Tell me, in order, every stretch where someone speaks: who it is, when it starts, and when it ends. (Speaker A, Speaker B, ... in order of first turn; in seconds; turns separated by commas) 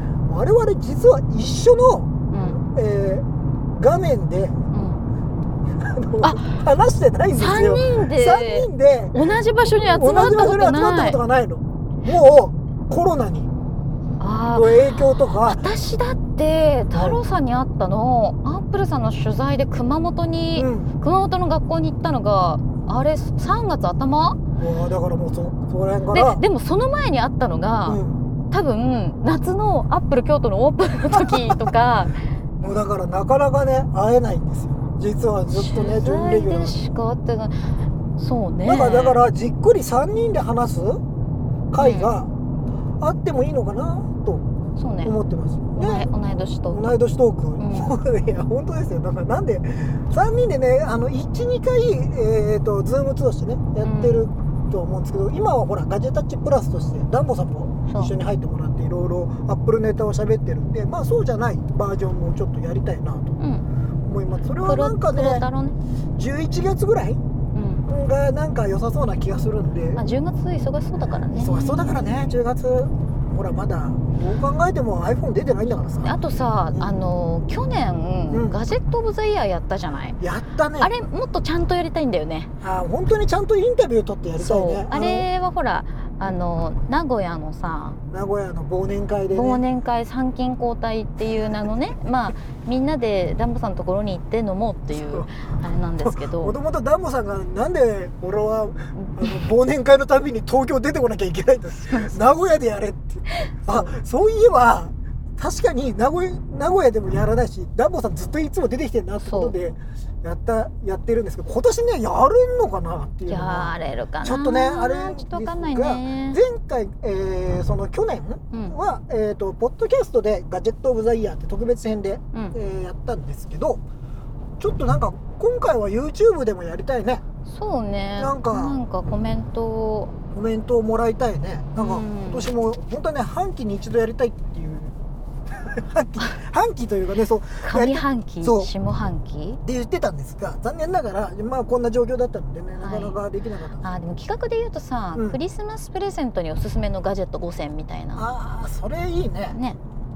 Speaker A: 0.3-4.6, Speaker B: 2.3-2.6, Speaker B: 4.7-5.0, Speaker A: 5.8-13.5, Speaker B: 6.2-6.5, Speaker B: 7.4-11.2, Speaker B: 14.2-24.4, Speaker A: 14.5-15.6, Speaker A: 16.9-17.2, Speaker A: 20.6-20.9, Speaker A: 24.6-26.4, Speaker B: 26.1-32.2, Speaker A: 27.9-28.3, Speaker A: 31.1-31.8, Speaker A: 32.6-36.8, Speaker B: 35.5-39.2, Speaker A: 38.6-41.0, Speaker A: 41.7-42.3, Speaker B: 41.8-42.1, Speaker A: 43.0-44.5, Speaker B: 44.8-45.1, Speaker A: 45.0-46.1, Speaker B: 45.8-46.8, Speaker A: 46.7-63.4, Speaker B: 47.6-47.9, Speaker B: 53.8-54.3, Speaker B: 63.4-63.6, Speaker A: 64.1-65.5, Speaker B: 64.6-65.8, Speaker A: 66.2-67.2, Speaker B: 67.5-67.9, Speaker A: 67.9-70.0, Speaker B: 70.0-72.2, Speaker A: 71.0-76.2, Speaker B: 76.0-80.2, Speaker A: 76.7-77.0, Speaker A: 78.3-78.6, Speaker A: 80.2-80.9, Speaker B: 80.8-82.5, Speaker A: 82.6-85.3, Speaker B: 84.4-88.0, Speaker A: 88.1-89.6, Speaker B: 89.3-96.5, Speaker A: 94.9-123.8, Speaker B: 98.9-99.4, Speaker B: 101.8-102.3, Speaker B: 103.3-103.9, Speaker B: 109.2-109.6, Speaker B: 113.3-116.4, Speaker A: 124.6-127.2, Speaker B: 127.5-130.2, Speaker A: 128.2-128.8, Speaker A: 130.3-135.0, Speaker B: 131.8-132.5, Speaker A: 135.5-138.7, Speaker B: 137.6-139.6, Speaker A: 139.6-144.0, Speaker B: 142.8-143.2, Speaker B: 143.8-148.3, Speaker A: 148.2-149.6, Speaker B: 149.5-149.8